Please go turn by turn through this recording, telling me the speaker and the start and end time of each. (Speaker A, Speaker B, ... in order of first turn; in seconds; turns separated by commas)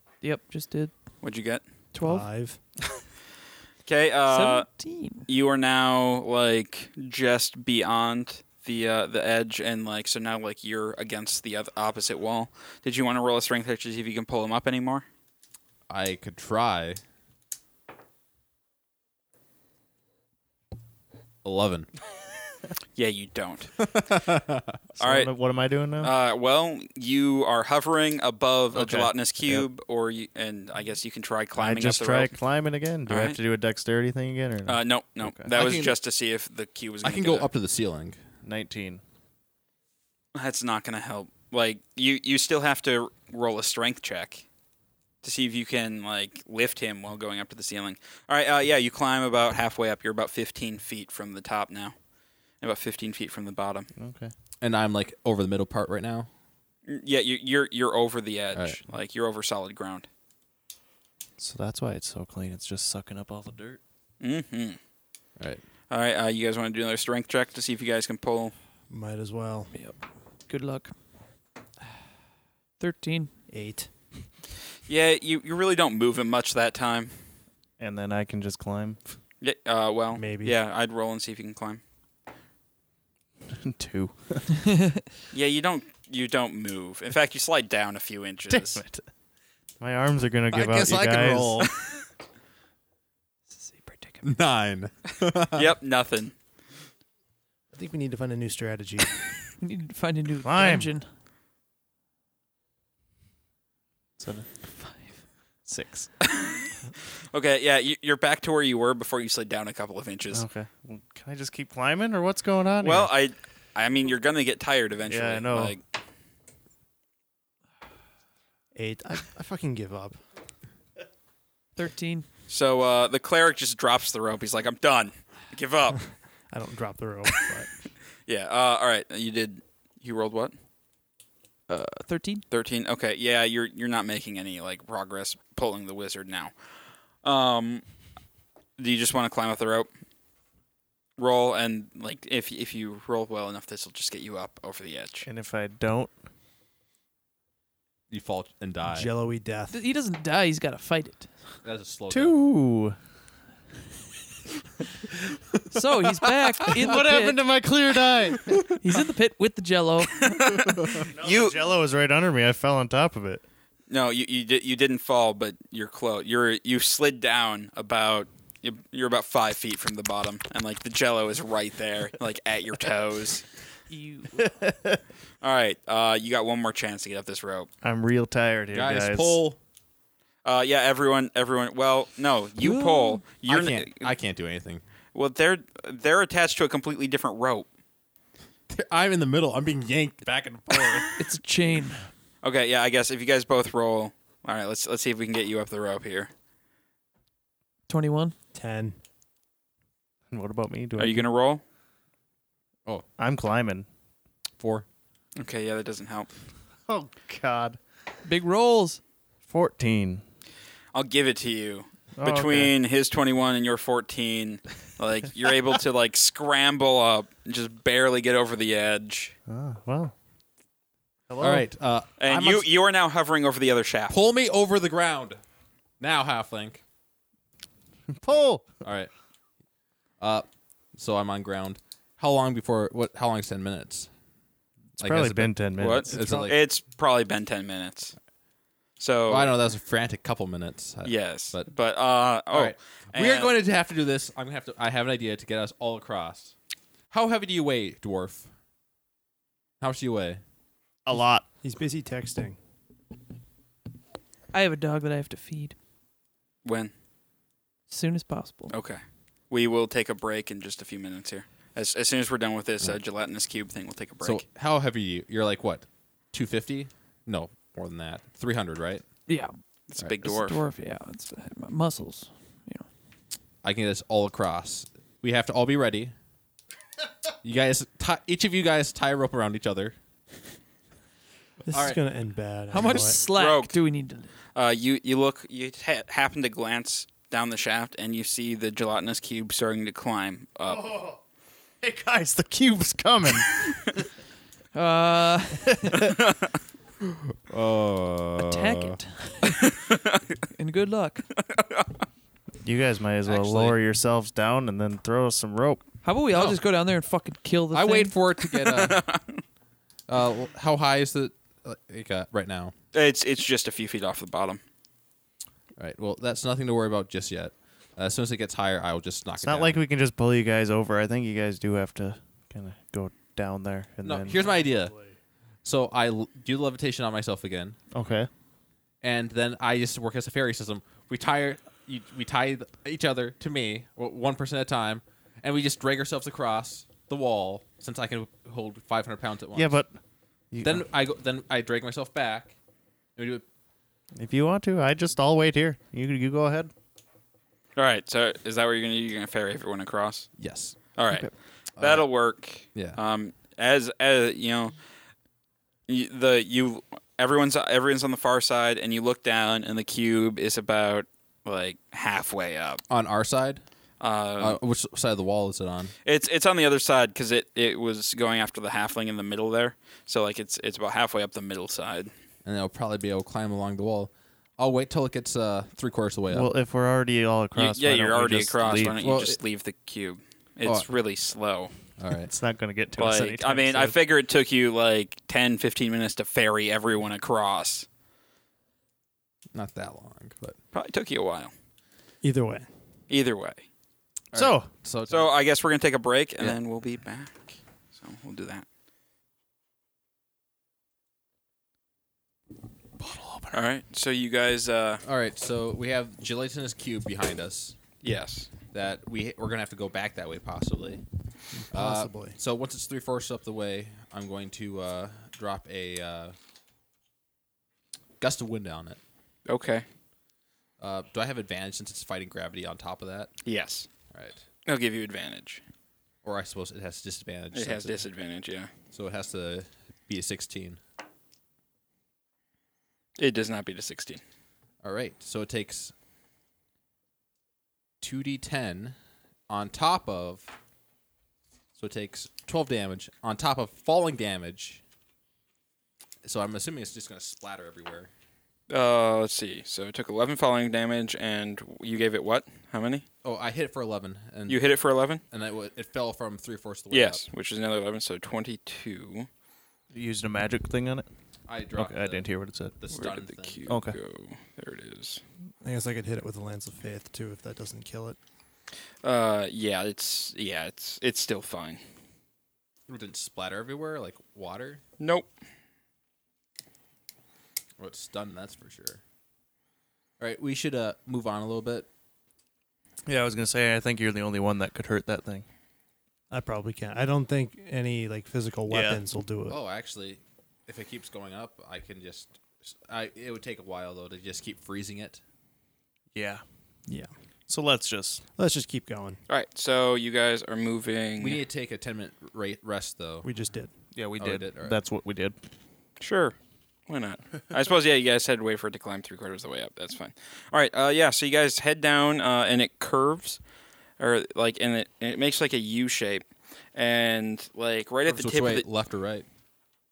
Speaker A: 0.2-0.9, Speaker B: 1.2-1.6, Speaker A: 1.9-2.3, Speaker C: 2.0-2.6, Speaker B: 3.9-4.7, Speaker A: 4.3-5.3, Speaker B: 5.2-15.1, Speaker D: 15.9-17.0, Speaker D: 21.4-21.9, Speaker B: 22.9-23.7, Speaker D: 23.8-24.8, Speaker E: 24.9-26.1, Speaker B: 25.0-25.3, Speaker B: 26.0-32.4, Speaker E: 28.7-29.7, Speaker E: 31.6-35.5, Speaker B: 33.1-33.4, Speaker B: 34.7-37.5, Speaker D: 35.5-36.0, Speaker D: 37.0-38.2, Speaker E: 38.4-39.0, Speaker B: 40.3-44.4, Speaker B: 45.2-51.9, Speaker B: 52.6-53.9, Speaker E: 54.0-54.3, Speaker D: 54.6-56.3, Speaker B: 56.9-60.1, Speaker D: 58.5-58.8, Speaker E: 61.4-63.8, Speaker B: 64.2-64.8, Speaker B: 65.9-68.5, Speaker C: 68.9-69.7, Speaker A: 69.7-70.9, Speaker A: 72.8-73.3, Speaker C: 73.5-73.9, Speaker B: 74.9-77.1, Speaker E: 77.8-79.0, Speaker B: 79.4-81.8, Speaker C: 80.1-80.6, Speaker E: 83.5-84.5, Speaker B: 85.3-88.8, Speaker E: 88.5-89.0, Speaker E: 89.8-91.7, Speaker D: 90.5-91.7, Speaker A: 93.5-94.2, Speaker D: 94.2-95.7, Speaker B: 95.5-96.3, Speaker C: 97.7-99.1, Speaker A: 99.6-101.1, Speaker E: 100.4-100.9, Speaker E: 104.2-104.5, Speaker A: 104.8-105.1, Speaker E: 105.7-106.1, Speaker B: 106.2-106.7, Speaker B: 107.3-110.4, Speaker E: 110.3-113.1, Speaker B: 112.8-115.8, Speaker E: 115.1-115.7, Speaker C: 118.7-120.2, Speaker A: 121.8-122.2, Speaker B: 122.5-126.0, Speaker C: 126.5-127.8, Speaker B: 128.2-130.5, Speaker A: 131.7-132.4, Speaker B: 132.5-136.5, Speaker B: 137.2-137.8, Speaker B: 138.8-139.9, Speaker B: 141.2-145.3, Speaker E: 145.2-146.1, Speaker D: 148.1-149.1, Speaker C: 148.9-149.7, Speaker A: 149.7-151.3, Speaker D: 151.6-152.3, Speaker E: 152.1-152.9, Speaker A: 155.7-157.4, Speaker E: 156.7-158.6, Speaker A: 158.8-160.2, Speaker B: 160.2-161.6, Speaker D: 160.7-161.1, Speaker E: 161.0-163.4, Speaker B: 163.9-173.4, Speaker A: 173.9-174.5, Speaker E: 174.4-175.0, Speaker B: 175.4-177.7, Speaker E: 177.8-179.4, Speaker D: 178.7-179.6, Speaker B: 180.4-184.1, Speaker A: 182.6-183.2, Speaker D: 183.4-184.8, Speaker B: 185.1-187.7, Speaker D: 188.7-191.2, Speaker A: 191.2-192.1, Speaker B: 192.4-196.3, Speaker A: 197.9-198.3, Speaker C: 198.5-198.9, Speaker E: 200.3-201.3, Speaker B: 201.0-201.6, Speaker E: 203.2-203.9, Speaker D: 204.6-204.8, Speaker B: 205.4-206.3, Speaker E: 206.9-207.8, Speaker A: 208.2-209.0, Speaker E: 209.5-210.2, Speaker B: 210.9-219.3, Speaker E: 212.2-212.7, Speaker E: 219.5-220.1, Speaker E: 221.3-221.7, Speaker D: 221.4-222.7, Speaker B: 222.2-224.2, Speaker D: 224.1-225.4, Speaker D: 226.0-226.8, Speaker E: 228.1-228.7, Speaker D: 228.8-229.1, Speaker D: 230.2-234.1, Speaker D: 235.0-236.6, Speaker E: 235.0-236.4, Speaker B: 235.8-238.1, Speaker B: 239.0-239.6, Speaker D: 239.3-241.7, Speaker B: 241.0-243.5, Speaker D: 242.5-246.5, Speaker D: 247.1-248.5, Speaker D: 249.8-250.4, Speaker E: 251.0-251.5, Speaker C: 251.6-252.6, Speaker A: 254.5-255.7, Speaker B: 256.6-256.9, Speaker A: 257.9-258.7, Speaker B: 258.7-264.4, Speaker D: 264.2-269.0, Speaker A: 269.3-269.5, Speaker B: 269.9-270.6, Speaker A: 270.2-272.9, Speaker D: 273.6-276.1, Speaker D: 277.4-279.9, Speaker C: 281.7-283.2, Speaker D: 281.7-282.0, Speaker A: 282.7-284.3, Speaker B: 283.3-283.7, Speaker B: 284.5-290.9, Speaker E: 290.6-291.2, Speaker E: 291.8-294.0, Speaker A: 294.7-296.1, Speaker B: 296.0-296.4, Speaker D: 297.5-299.0, Speaker A: 298.4-299.6, Speaker B: 299.5-300.4, Speaker A: 300.5-301.3, Speaker B: 301.4-301.9, Speaker E: 302.6-305.8, Speaker D: 303.2-303.8, Speaker A: 306.0-308.9, Speaker D: 306.3-306.6, Speaker D: 307.7-309.1, Speaker B: 308.8-309.4, Speaker D: 310.1-312.7, Speaker B: 312.9-314.6, Speaker D: 315.8-319.8, Speaker E: 319.4-324.4, Speaker D: 324.0-324.9, Speaker C: 324.4-324.7, Speaker D: 325.6-327.8, Speaker E: 327.9-328.3, Speaker D: 329.0-339.8, Speaker E: 339.5-340.0, Speaker E: 340.5-340.9, Speaker D: 340.6-342.6, Speaker D: 343.1-343.4, Speaker E: 344.2-346.7, Speaker B: 347.8-350.3, Speaker D: 350.4-350.8, Speaker B: 350.9-354.8, Speaker D: 351.8-352.1, Speaker D: 352.6-353.0, Speaker B: 355.9-362.8, Speaker D: 362.9-363.6, Speaker B: 364.0-364.6, Speaker D: 364.4-365.9, Speaker B: 366.0-372.1, Speaker D: 372.4-376.5, Speaker E: 376.3-379.0, Speaker B: 377.5-381.7, Speaker D: 378.9-379.4, Speaker D: 380.6-380.9, Speaker D: 382.0-382.3, Speaker E: 382.1-383.9, Speaker B: 383.0-387.9, Speaker D: 389.5-390.6, Speaker B: 390.7-391.5, Speaker C: 392.2-392.7, Speaker B: 393.1-393.6, Speaker D: 394.3-395.3, Speaker E: 394.3-394.7, Speaker B: 395.1-398.6, Speaker E: 403.0-403.6, Speaker B: 403.5-405.0, Speaker D: 405.0-407.8, Speaker B: 408.0-408.5, Speaker D: 408.7-411.0, Speaker C: 411.5-412.4, Speaker D: 411.7-416.3, Speaker D: 418.2-419.0, Speaker B: 419.5-419.8, Speaker D: 420.8-423.3, Speaker B: 423.4-423.9, Speaker D: 424.1-424.4, Speaker B: 424.6-425.6, Speaker D: 426.2-428.0, Speaker B: 427.5-428.7, Speaker D: 428.9-430.8, Speaker B: 433.2-434.2, Speaker D: 434.8-435.9, Speaker D: 438.0-438.9, Speaker D: 439.5-440.5, Speaker D: 441.8-444.8, Speaker D: 446.2-448.1, Speaker B: 448.7-453.1, Speaker D: 453.2-454.6, Speaker B: 454.5-455.2, Speaker D: 455.3-457.2, Speaker B: 456.9-459.3, Speaker E: 459.9-461.1, Speaker D: 461.5-463.7, Speaker E: 461.7-462.7, Speaker B: 462.9-465.2, Speaker E: 463.7-464.0, Speaker C: 465.6-468.2, Speaker B: 469.0-471.8, Speaker D: 472.9-474.8, Speaker B: 475.0-475.3, Speaker D: 477.8-479.0, Speaker D: 480.2-481.9, Speaker E: 483.1-485.4, Speaker C: 486.3-489.6, Speaker E: 488.7-489.0, Speaker D: 489.5-495.2, Speaker E: 496.1-496.4, Speaker E: 497.5-498.2, Speaker C: 498.4-499.2, Speaker B: 499.3-501.4, Speaker D: 501.2-503.3, Speaker C: 503.2-503.7, Speaker E: 503.9-505.4, Speaker D: 504.2-504.8, Speaker B: 506.0-506.4, Speaker B: 506.9-513.4, Speaker B: 514.0-518.7, Speaker D: 518.0-519.2